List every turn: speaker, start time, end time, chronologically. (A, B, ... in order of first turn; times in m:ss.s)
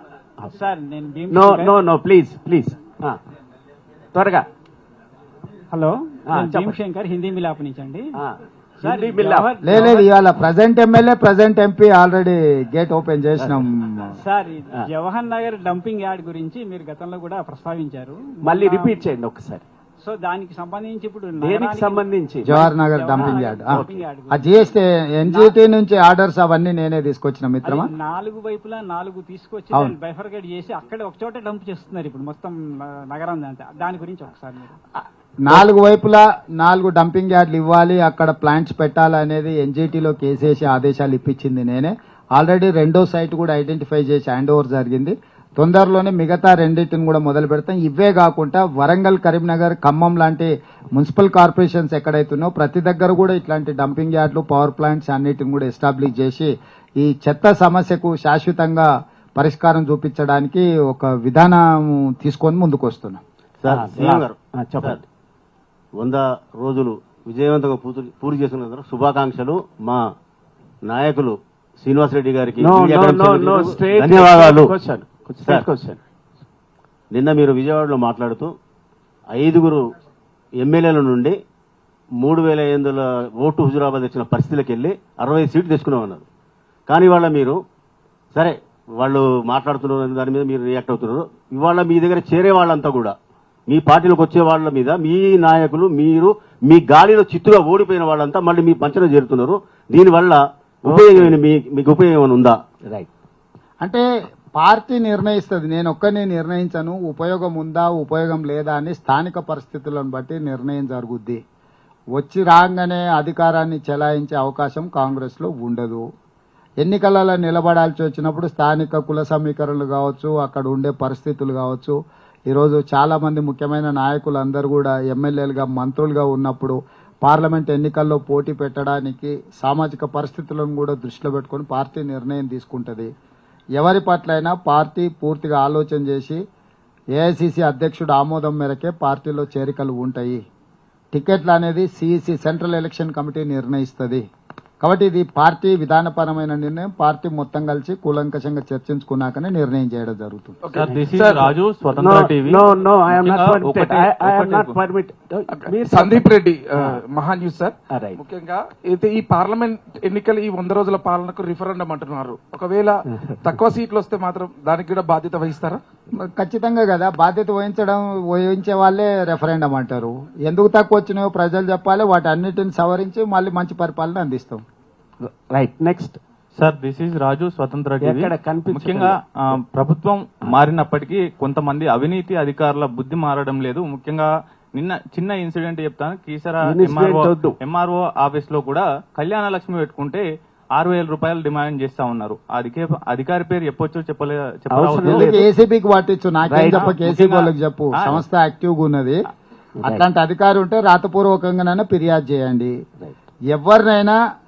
0:00.5-0:01.8 A
0:01.3-0:03.2 B
0:04.1-0:04.5 B
0:05.7-0:08.2 A
0:06.3-0:06.8 B
0:08.2-0:10.0 B
0:08.8-0:10.1 A
0:09.6-0:14.2 C
0:14.2-0:19.1 A
0:18.4-0:19.6 B
0:20.0-0:25.6 A
0:21.4-0:22.6 B
0:22.5-0:27.9 C
0:23.2-0:24.0 B
0:27.6-0:34.8 A
0:35.4-1:03.2 C
1:03.6-1:05.0 D
1:03.7-1:05.0 B
1:06.0-1:10.0 D
1:10.9-1:14.7 D
1:12.6-1:16.0 B
1:17.1-1:18.5 D
1:19.3-1:19.8 D
1:20.6-1:21.3 D
1:22.2-1:26.2 D
1:26.9-1:27.6 D
1:28.3-1:33.2 D
1:33.7-1:42.6 D
1:40.9-1:41.4 B
1:44.6-1:51.4 C
1:52.2-1:56.0 C
1:56.8-2:02.0 C
2:02.5-2:13.1 C
2:13.8-2:16.4 C
2:17.2-2:20.4 C
2:21.1-2:24.2 C
2:24.8-2:30.6 C
2:30.6-2:31.6 E
2:30.7-2:34.8 F
2:32.0-2:37.0 B
2:35.5-2:45.8 E
2:37.9-2:38.2 B
2:46.1-2:54.6 C
2:55.2-2:56.2 B
2:56.6-3:10.2 F
2:58.0-2:59.2 B
3:06.6-3:07.6 B
3:10.8-3:15.3 F
3:14.7-3:15.5 B
3:15.0-3:19.2 C
3:16.5-3:16.9 B
3:16.7-3:18.2 F
3:19.8-3:20.1 B
3:19.8-3:22.7 C
3:23.5-3:24.2 C